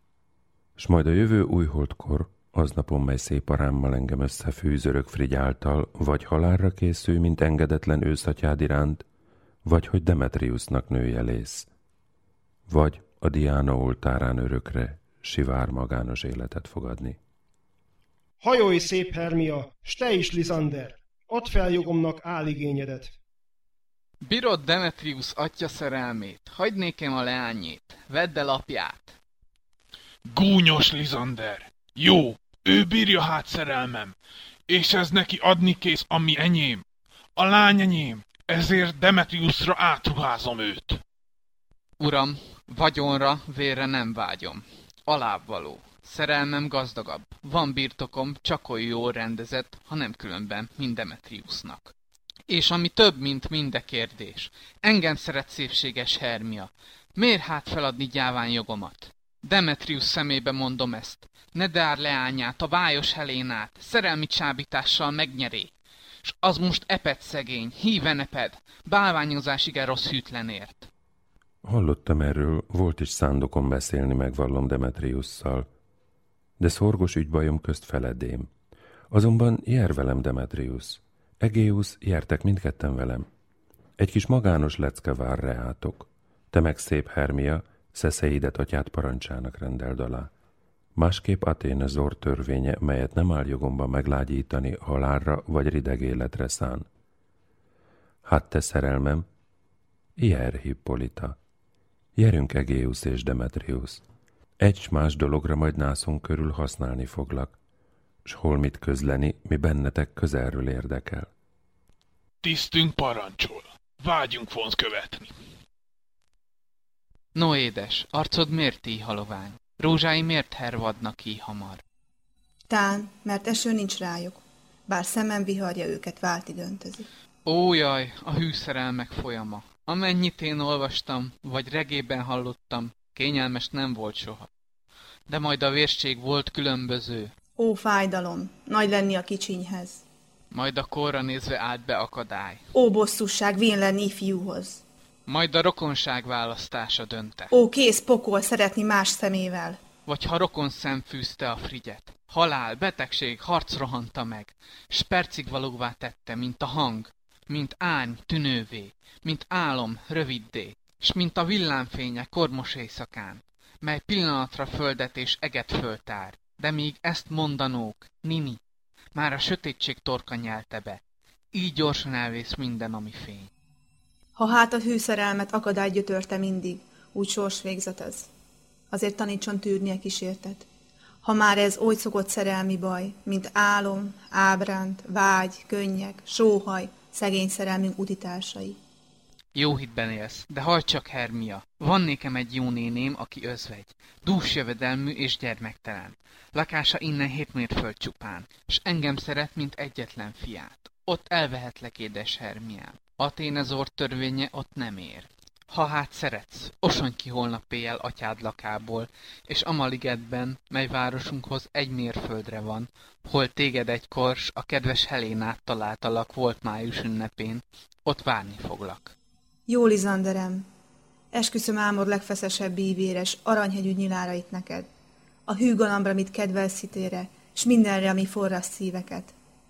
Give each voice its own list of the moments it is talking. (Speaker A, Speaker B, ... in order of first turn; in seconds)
Speaker A: 0.8-9.1, 9.6-11.7, 12.7-17.2, 71.6-75.7, 76.6-78.5, 79.1-83.3, 84.0-90.3, 91.0-96.8, 98.2-99.3, 100.2-101.4, 102.2-104.0, 104.6-107.6, 108.2-111.3
Speaker B: 18.4-23.1
Speaker C: 24.2-29.1, 42.0-51.9, 52.5-65.7, 66.2-70.9, 117.3-121.8, 127.5-134.5, 135.3-137.3, 140.5-142.6, 145.3-147.5, 150.1-168.6, 169.1-171.0, 171.5-173.5, 189.5-219.1
Speaker D: 30.3-34.1, 34.7-36.8, 37.4-41.0, 112.4-115.3
Speaker E: 122.7-127.1, 137.6-140.0, 142.7-144.8, 147.5-149.8, 174.4-178.3, 178.9-180.7, 181.2-188.8, 219.7-220.7, 221.3-224.9, 225.5-229.3